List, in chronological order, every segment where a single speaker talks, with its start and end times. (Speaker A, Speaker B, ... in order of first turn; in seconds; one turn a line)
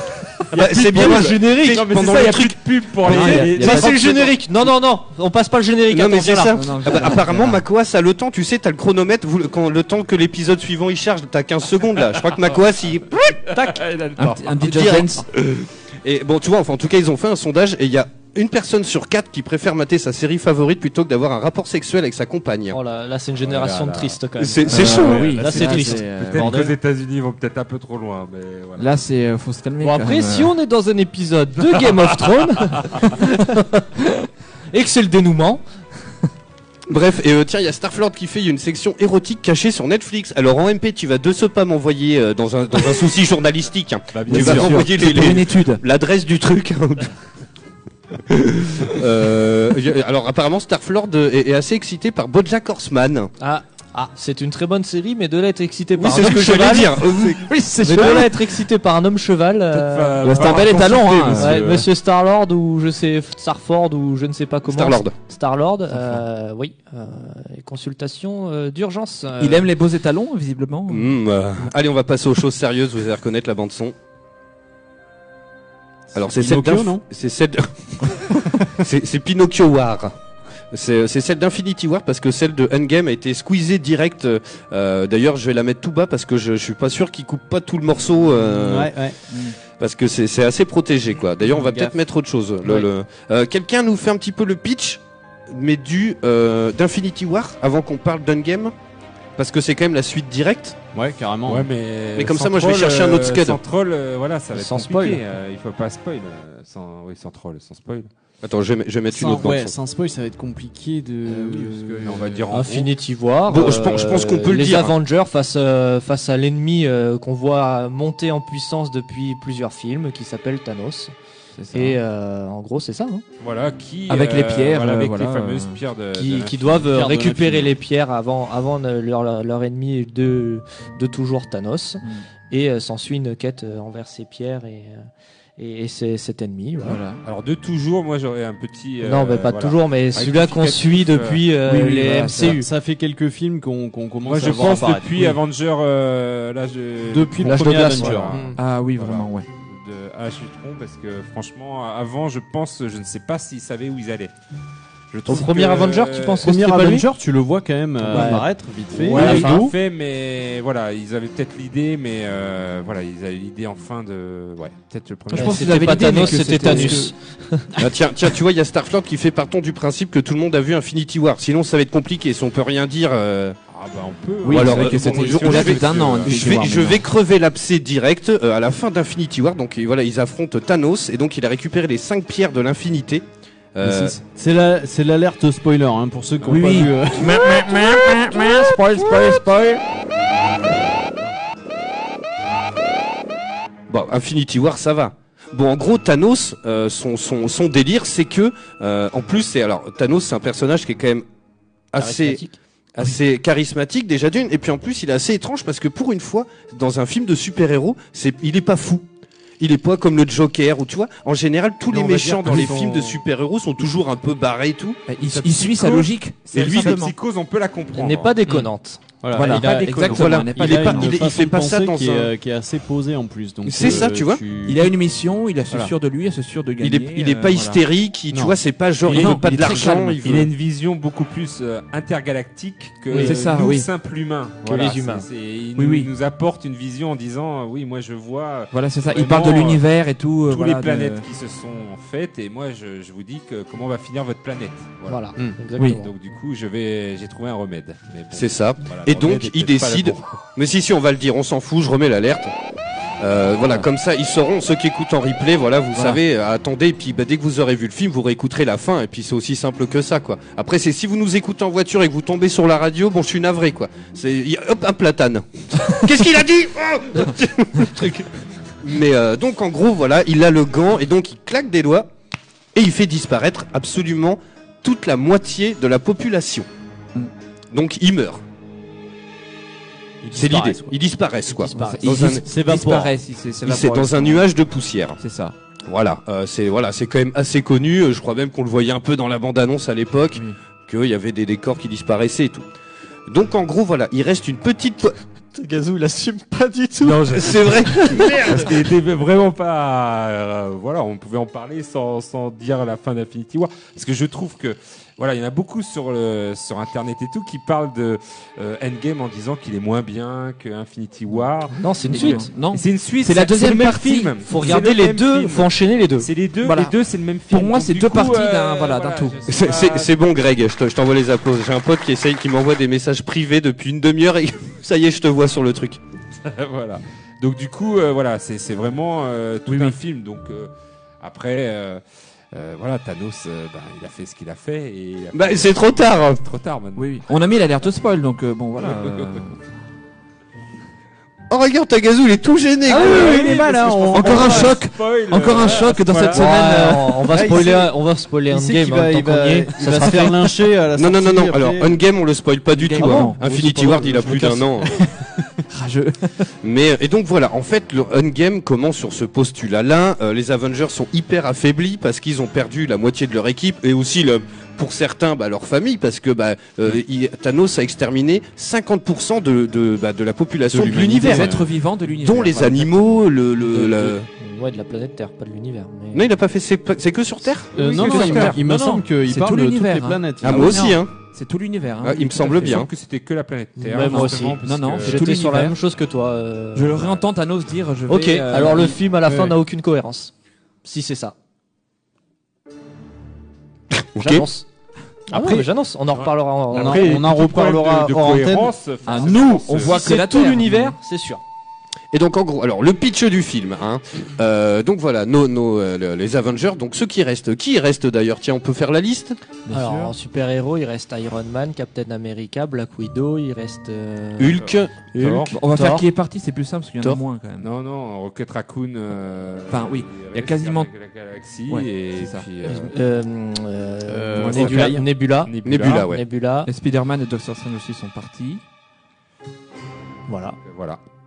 Speaker A: 0.5-3.8
Speaker B: 0.5-1.9
Speaker C: 0.8-4.3
Speaker D: 3.0-3.9
Speaker B: 3.1-7.1
Speaker A: 5.9-13.5
Speaker D: 6.5-7.6
Speaker C: 13.5-14.4
Speaker D: 14.2-15.3
Speaker A: 14.6-22.8
Speaker B: 22.7-26.7
Speaker C: 23.4-24.2
Speaker A: 24.4-25.4
Speaker D: 24.7-26.6
Speaker E: 25.1-26.7
Speaker C: 25.4-28.9
Speaker D: 28.8-30.5
Speaker B: 29.8-35.6
Speaker A: 36.9-47.1
Speaker C: 44.1-44.9
Speaker D: 44.3-45.8
Speaker A: 48.3-53.3
Speaker B: 53.4-60.8
Speaker A: 56.0-58.3
Speaker C: 59.7-61.9
Speaker D: 60.2-61.7
Speaker B: 61.4-69.7
Speaker A: 64.7-65.1
Speaker D: 69.4-71.1
Speaker A: 70.9-74.0
Speaker E: 76.1-77.0
Speaker A: 76.2-80.1
Speaker A: 80.7-89.0
Speaker E: 88.4-89.2
Speaker D: 89.3-89.6
Speaker A: 89.8-98.7
Speaker E: 91.5-91.9
Speaker A: 99.4-100.8
Speaker E: 100.9-101.7
Speaker C: 101.5-108.1
Speaker A: 102.2-103.6
Speaker B: 104.5-105.2
Speaker A: 108.4-109.8
Speaker E: 109.1-112.5
Speaker D: 111.3-112.2
Speaker C: 112.0-112.9
Speaker B: 112.5-121.1
Speaker A: 113.5-114.9
Speaker D: 121.6-122.0
Speaker B: 121.7-123.2
Speaker C: 123.4-126.9
Speaker D: 124.1-125.8
Speaker B: 126.2-135.1
Speaker E: 126.9-127.8
Speaker B: 135.6-137.0
Speaker D: 136.8-137.2
Speaker C: 137.2-141.5
Speaker B: 139.0-142.7
Speaker D: 141.6-142.6
Speaker E: 142.5-145.4
Speaker C: 144.2-154.3
Speaker E: 147.1-148.4
Speaker B: 147.4-148.6
Speaker D: 148.6-149.5
Speaker C: 155.1-156.5
Speaker B: 155.3-157.1
Speaker E: 156.4-159.7
Speaker B: 158.1-158.5
Speaker C: 158.9-166.9
Speaker B: 159.1-159.6
Speaker D: 165.3-167.1
Speaker B: 165.3-167.7
Speaker A: 167.8-173.6
Speaker C: 173.7-176.7
Speaker D: 174.4-177.0
Speaker A: 174.5-184.2
Speaker E: 183.8-187.6
Speaker D: 186.4-189.8
Speaker A: 193.9-201.2
Speaker A: 201.9-202.4
Speaker B: 202.0-202.6
Speaker A: 202.9-209.0
Speaker A: 209.6-215.4
Speaker C: 211.9-213.2
Speaker D: 215.1-217.2
Speaker C: 215.3-218.3
Speaker A: 216.7-216.9
Speaker B: 217.9-219.0
Speaker E: 219.2-224.9
Speaker D: 219.3-221.3
Speaker A: 219.9-222.3
Speaker A: 223.7-224.4
Speaker D: 224.6-227.8
Speaker A: 226.8-230.5
Speaker C: 229.1-239.9
Speaker D: 229.1-230.5
Speaker D: 233.1-233.9
Speaker B: 234.6-235.3
Speaker D: 235.8-236.1
Speaker D: 238.7-241.2
Speaker C: 240.4-245.2
Speaker B: 245.1-246.1
Speaker C: 245.8-250.4
Speaker A: 248.3-252.5
Speaker A: 253.2-268.3
Speaker D: 255.9-256.2
Speaker A: 268.8-272.1
Speaker A: 272.8-276.7
Speaker A: 277.7-278.4
Speaker E: 280.2-280.9
Speaker A: 280.3-282.5
Speaker E: 281.7-283.1
Speaker D: 281.7-284.5
Speaker B: 281.7-282.0
Speaker A: 283.6-285.2
Speaker D: 285.2-285.6
Speaker A: 285.9-292.7
Speaker A: 293.3-295.2
Speaker B: 295.5-298.7
Speaker C: 297.0-320.1
Speaker A: 297.4-298.6
Speaker B: 311.8-312.5
Speaker D: 312.1-314.3
Speaker B: 314.4-316.3
Speaker D: 316.6-316.9
Speaker D: 317.5-319.4
Speaker A: 319.5-326.0
Speaker C: 326.4-337.2
Speaker D: 329.7-330.0
Speaker A: 335.3-336.4
Speaker D: 337.0-339.6
Speaker C: 338.8-339.4
Speaker A: 341.5-343.4
Speaker B: 342.9-343.4
Speaker E: 342.9-344.7
Speaker C: 342.9-346.5
Speaker D: 344.1-347.4
Speaker B: 346.3-350.4
Speaker E: 347.3-347.9
Speaker E: 348.5-352.0
Speaker A: 351.0-354.9
Speaker D: 352.7-354.5
Speaker E: 353.0-354.7
Speaker D: 355.7-356.5
Speaker A: 356.6-371.6
Speaker E: 370.7-371.6
Speaker D: 370.9-373.0
Speaker A: 372.2-374.3
Speaker D: 373.7-374.1
Speaker B: 374.4-376.2
Speaker A: 376.1-377.7
Speaker E: 377.7-380.9
Speaker C: 377.8-378.6
Speaker D: 377.8-382.8
Speaker A: 380.4-381.1
Speaker A: 382.0-382.9
Speaker C: 382.4-385.4
Speaker B: 383.8-387.1
Speaker D: 383.9-385.8
Speaker D: 386.8-389.0
Speaker B: 388.1-390.3
Speaker E: 389.3-389.6
Speaker B: 390.8-391.4
Speaker A: 394.1-394.4
Speaker B: 394.2-394.7
Speaker B: 395.3-397.2
Speaker E: 395.3-395.7
Speaker C: 396.2-400.2
Speaker E: 396.7-398.7
Speaker D: 399.1-401.0
Speaker B: 399.2-401.4
Speaker A: 402.1-409.4
Speaker D: 409.7-410.1
Speaker B: 409.7-416.1
Speaker A: 414.4-415.0
Speaker C: 414.6-415.6
Speaker D: 415.5-417.7
Speaker C: 417.6-422.9
Speaker D: 419.7-420.9
Speaker D: 421.7-422.5
Speaker B: 422.6-426.7
Speaker E: 424.1-425.1
Speaker D: 424.4-424.9
Speaker C: 425.4-426.1
Speaker A: 425.6-426.2
Speaker D: 426.7-428.6
Speaker B: 430.3-430.6
Speaker C: 430.6-431.0